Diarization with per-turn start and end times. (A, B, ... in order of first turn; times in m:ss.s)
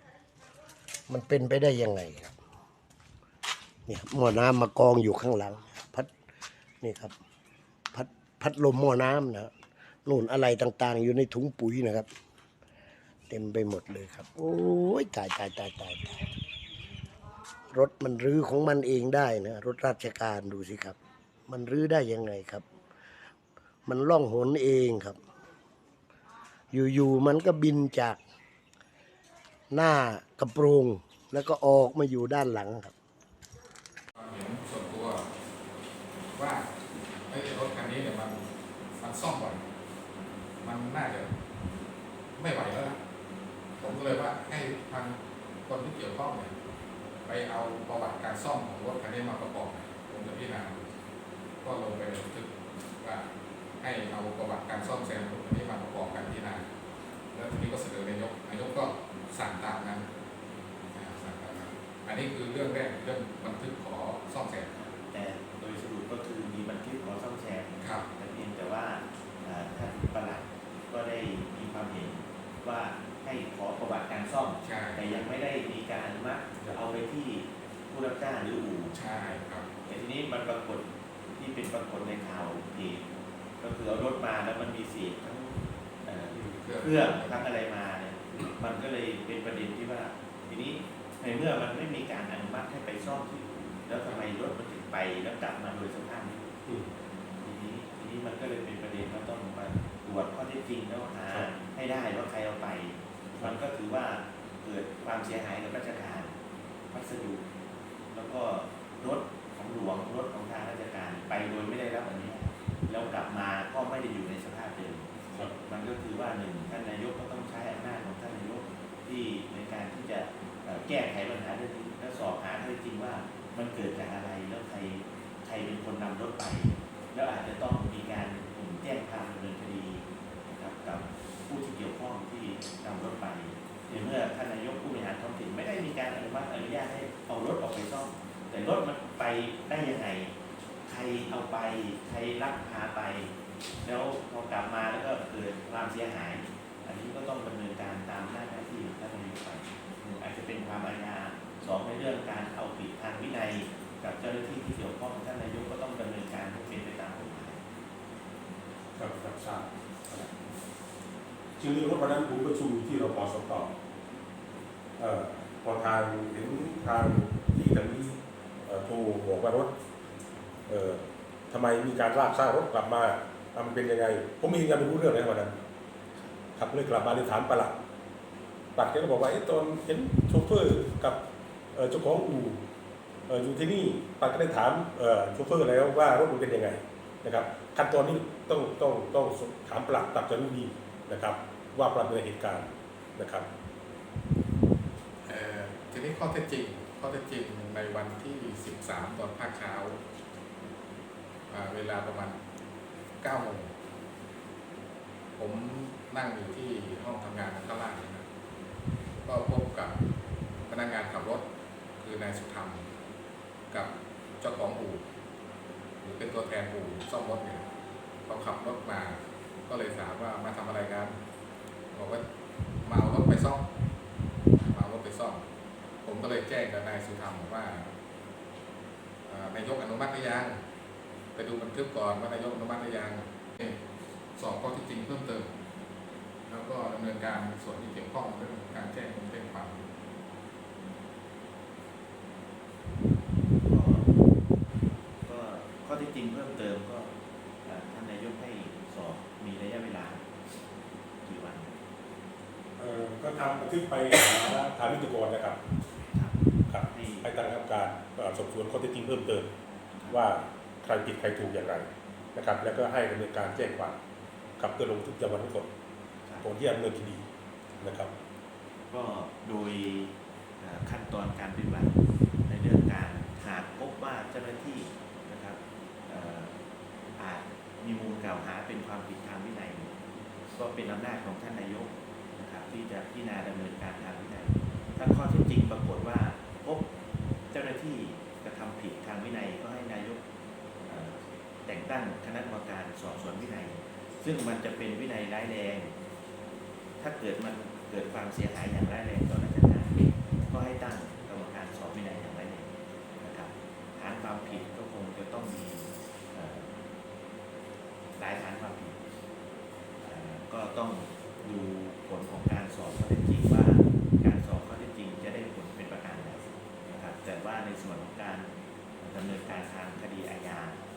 0:01.1-0:02.4 A
0:03.9-0:06.1 A
0:06.8-0:07.1 A
0:07.9-0:09.5 A
0:10.0-0:12.1 A
0:13.3-0:16.2 A
0:17.7-0:21.0 A
0:21.5-0:22.6 A
0:23.8-0:25.2 A
0:26.7-0:28.2 A
0:29.7-0:32.9 A
0:34.2-0:35.2 B
0:36.3-0:36.7 B
0:37.3-0:38.4 B
0:39.0-0:39.6 B
0:40.6-0:41.3 B
0:42.4-0:43.0 B
0:43.8-0:46.5 B
0:47.2-0:50.9 B
0:51.6-0:52.5 B
0:53.8-0:56.6 B
0:57.3-1:00.1 B
1:00.9-1:04.8 B
1:04.7-1:18.9 C
1:14.6-1:15.0 B
1:18.9-1:19.7 B
1:19.8-1:23.0 C
1:23.6-1:36.5 C
1:26.4-1:27.4 B
1:37.4-1:46.3 C
1:46.9-1:47.4 C
1:48.1-2:20.3 C
2:20.8-2:23.3 C
2:23.8-2:37.6 C
2:38.9-2:40.4 D
2:41.6-2:43.7 D
2:45.0-2:49.7 D
2:50.7-2:55.6 D
2:56.6-2:57.8 D
2:58.7-3:02.6 D
3:03.3-3:13.5 D
3:15.2-3:20.0 B
3:21.5-3:22.4 B
3:23.2-3:23.7 B
3:25.4-3:28.2 B
3:29.2-3:30.0 B
3:30.7-3:31.4 B
3:32.0-3:32.9 B
3:33.7-3:35.0 B
3:36.0-3:37.6 B
3:38.3-3:41.2 B
3:41.9-3:42.2 B
3:42.8-3:43.6 B
3:44.6-3:45.4 B
3:46.0-3:47.9 B
3:49.2-3:50.6 B
3:51.3-3:53.8 B
3:54.4-3:55.5 B
3:56.5-3:59.8 B
4:03.6-4:04.1 C
4:05.2-4:07.1 C
4:07.6-4:10.2 C
4:11.2-4:11.8 C
4:12.8-4:15.6 D
4:16.1-4:16.4 C
4:16.7-4:19.5 D
4:16.9-4:17.3 C
4:20.0-4:20.2 C
4:20.1-4:24.0 D
4:24.6-4:25.7 D
4:26.4-4:27.3 D
4:27.8-4:28.1 D
4:28.9-4:32.0 C
4:32.5-4:36.6 C
4:37.2-4:39.9 C
4:40.5-4:46.8 C
4:47.5-4:50.2 C
4:50.8-4:55.9 C
4:57.0-5:00.0 C
5:00.5-5:06.7 C
5:08.2-5:09.0 C
5:10.0-5:18.5 C
5:19.0-5:20.8 C